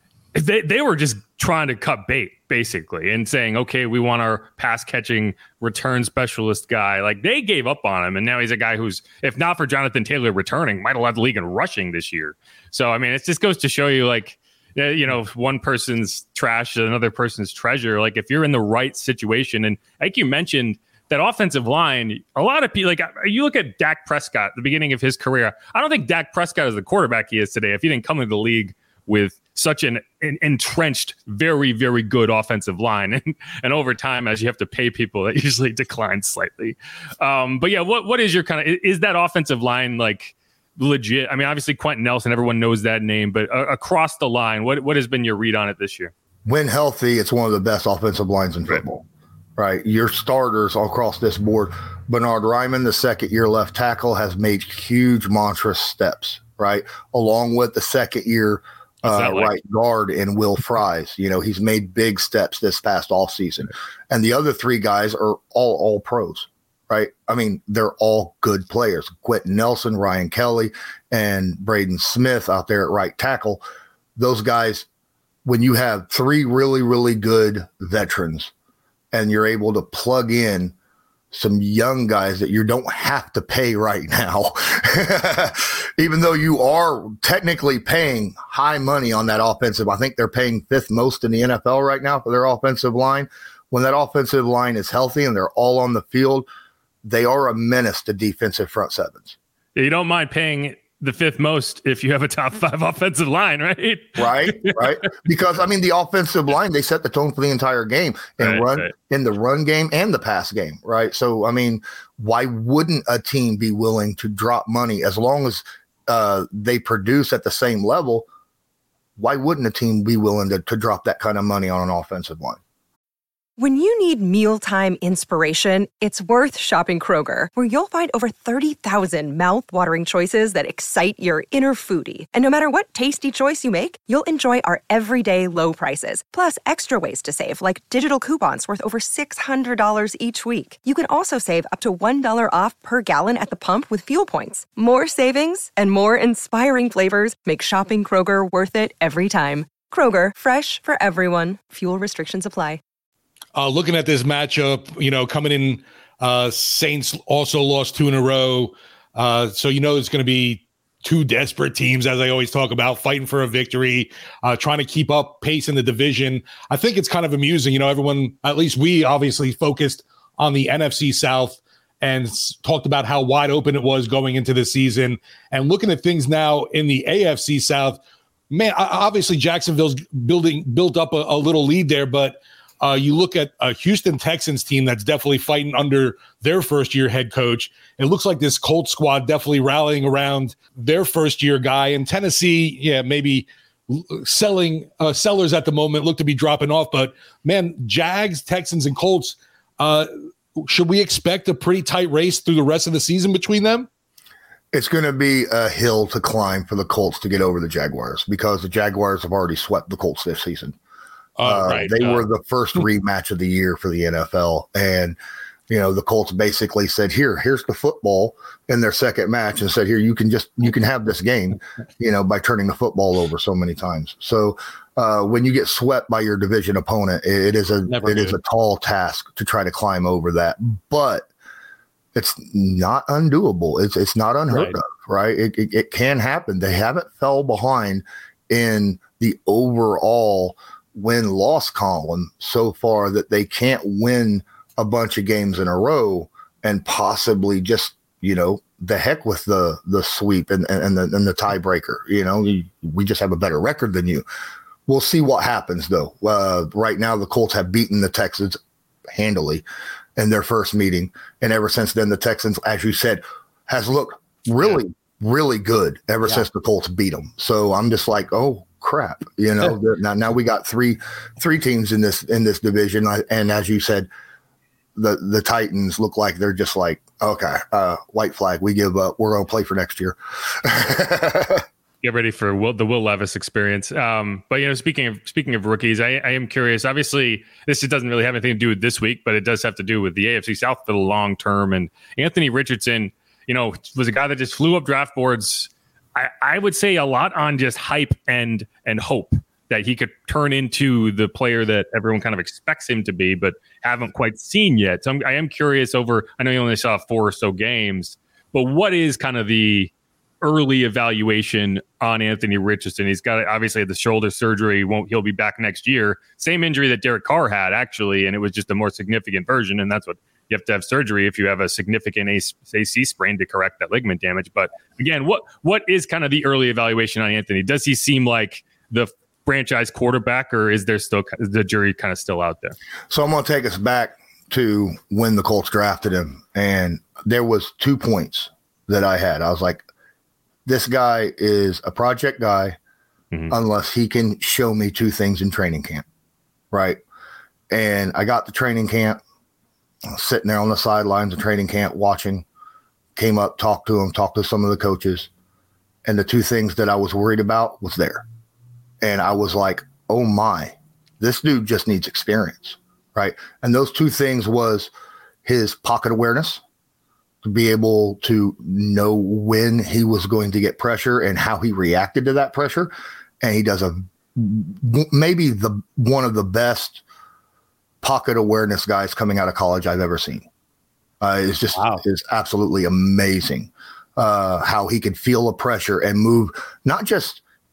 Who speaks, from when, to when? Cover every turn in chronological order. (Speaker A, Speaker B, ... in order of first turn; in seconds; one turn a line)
Speaker A: 0.3-46.1
Speaker B: 46.5-49.0
Speaker B: 49.6-73.6
Speaker A: 59.0-59.5
Speaker B: 74.2-74.9
Speaker B: 75.5-78.5
Speaker B: 79.1-80.7
Speaker B: 81.3-96.5
Speaker B: 97.0-99.4
Speaker A: 99.8-105.0
Speaker B: 104.2-118.3
Speaker A: 108.4-108.9
Speaker B: 119.2-122.6
Speaker C: 123.6-152.8
Speaker D: 153.6-178.0
Speaker D: 178.5-203.9
Speaker B: 204.7-210.8
Speaker D: 211.4-212.2
Speaker B: 211.4-215.2
Speaker B: 215.7-231.3
Speaker D: 228.0-228.3
Speaker B: 232.2-254.2
Speaker B: 254.9-258.6
Speaker B: 259.1-259.6
Speaker B: 260.2-274.1
Speaker B: 275.0-281.6
Speaker A: 282.0-332.8
Speaker B: 333.1-339.9
Speaker B: 340.7-342.8
Speaker B: 343.5-346.1
Speaker B: 346.7-347.0
Speaker B: 347.7-349.2
Speaker B: 350.1-352.4
Speaker B: 353.2-355.3
Speaker B: 356.1-358.2
Speaker B: 359.0-364.9
Speaker B: 365.4-366.6
Speaker B: 367.4-377.0
Speaker B: 378.0-380.5
Speaker B: 381.2-387.4
Speaker D: 381.8-382.0